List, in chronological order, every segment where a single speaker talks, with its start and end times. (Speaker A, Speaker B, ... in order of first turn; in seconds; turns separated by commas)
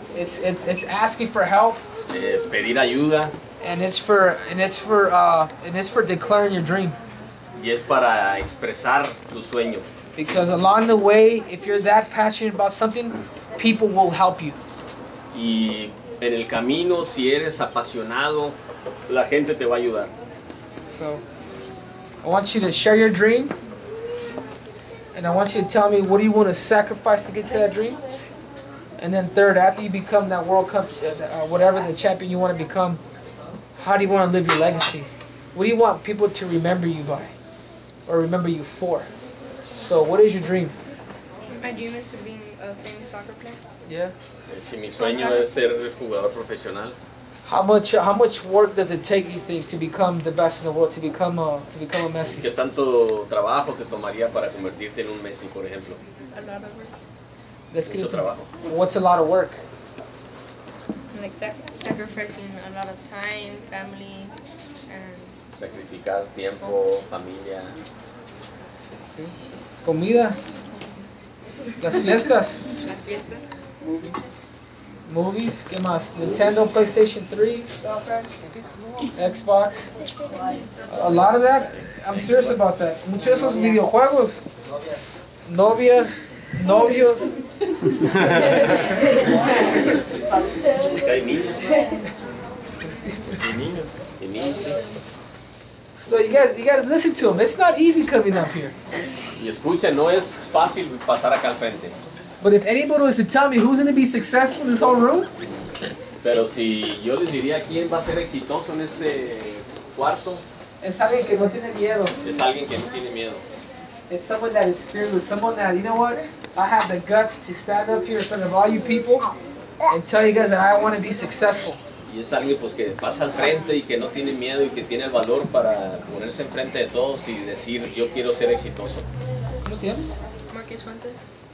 Speaker A: 0.1-1.8, Speaker B: 2.1-3.3, Speaker A: 3.6-7.0, Speaker B: 7.5-9.8, Speaker A: 10.2-14.6, Speaker B: 15.3-18.6, Speaker B: 19.1-20.1, Speaker A: 20.8-21.2, Speaker A: 22.2-23.5, Speaker A: 25.1-28.0, Speaker A: 29.0-33.0, Speaker A: 33.8-37.3, Speaker A: 38.1-39.1, Speaker A: 39.7-40.8, Speaker C: 41.4-43.6, Speaker A: 43.9-44.1, Speaker B: 44.5-47.0, Speaker C: 45.0-45.5, Speaker A: 47.4-52.4, Speaker B: 52.2-56.0, Speaker C: 56.3-56.9, Speaker A: 57.7-59.6, Speaker B: 57.9-58.5, Speaker C: 61.1-65.4, Speaker B: 65.5-67.8, Speaker C: 66.5-66.8, Speaker A: 69.1-70.4, Speaker A: 71.8-72.6, Speaker C: 72.8-73.7, Speaker A: 73.8-74.1, Speaker A: 75.0-77.7, Speaker B: 76.2-76.6, Speaker C: 77.9-78.3, Speaker A: 79.2-79.9, Speaker A: 80.9-84.5, Speaker B: 81.0-82.6, Speaker A: 85.4-87.4, Speaker B: 88.0-88.9, Speaker A: 88.4-90.0, Speaker B: 90.7-91.8, Speaker A: 91.7-92.1, Speaker A: 92.8-93.5, Speaker B: 93.3-94.8, Speaker A: 96.0-98.8, Speaker B: 99.3-101.9, Speaker A: 102.4-105.3, Speaker B: 106.2-110.4, Speaker A: 110.8-112.2, Speaker B: 112.2-113.4, Speaker A: 114.1-119.3, Speaker A: 119.9-121.8, Speaker B: 122.0-129.1, Speaker A: 129.6-130.1, Speaker C: 130.5-131.3